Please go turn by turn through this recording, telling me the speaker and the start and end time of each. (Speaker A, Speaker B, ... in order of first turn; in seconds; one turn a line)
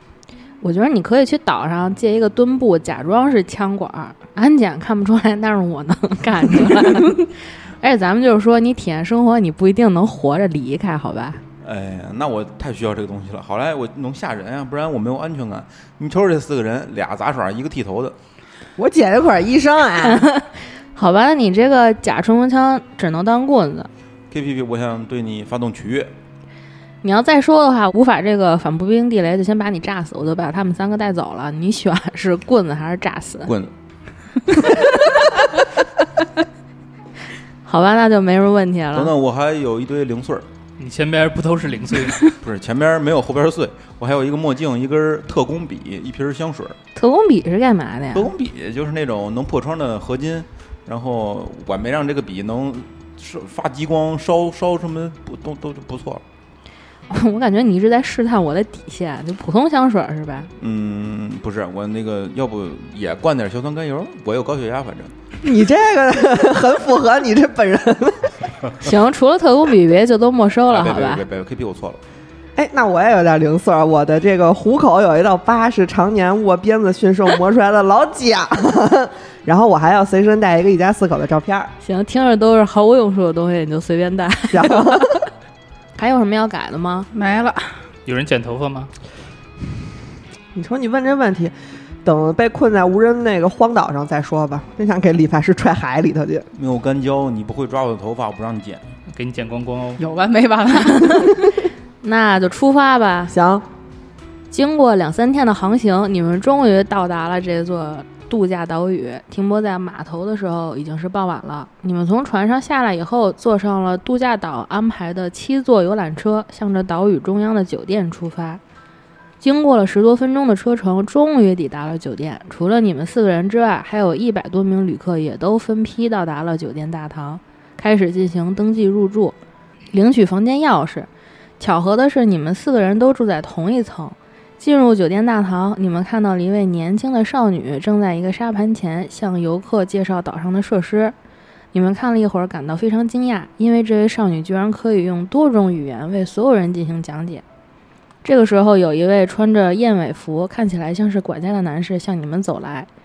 Speaker A: 0.6-11.4
Speaker B: 11.6-18.1
Speaker C: 18.8-20.3
Speaker A: 20.1-23.9
Speaker B: 24.3-26.1
Speaker A: 27.0-33.5
Speaker B: 33.5-33.7
Speaker A: 37.6-39.1
Speaker B: 38.9-40.5
Speaker D: 40.8-42.3
Speaker B: 42.4-46.8
Speaker A: 47.0-48.3
Speaker B: 48.1-56.2
Speaker A: 57.1-60.5
Speaker B: 60.6-65.1
Speaker C: 65.4-68.3
Speaker A: 68.8-71.2
Speaker B: 70.7-72.0
Speaker C: 72.5-81.7
Speaker A: 81.8-85.2
Speaker C: 84.5-85.2
Speaker A: 86.0-87.1
Speaker E: 87.1-87.8
Speaker D: 88.0-88.9
Speaker C: 90.5-91.5
Speaker C: 92.0-96.5
Speaker B: 96.5-98.8
Speaker D: 99.1-100.0
Speaker E: 100.0-101.4
Speaker A: 102.0-103.3
Speaker C: 103.3-103.6
Speaker A: 104.5-118.6
Speaker A: 119.4-129.3
Speaker A: 129.9-131.1
Speaker A: 131.6-141.1
Speaker A: 141.7-147.4
Speaker A: 148.2-152.9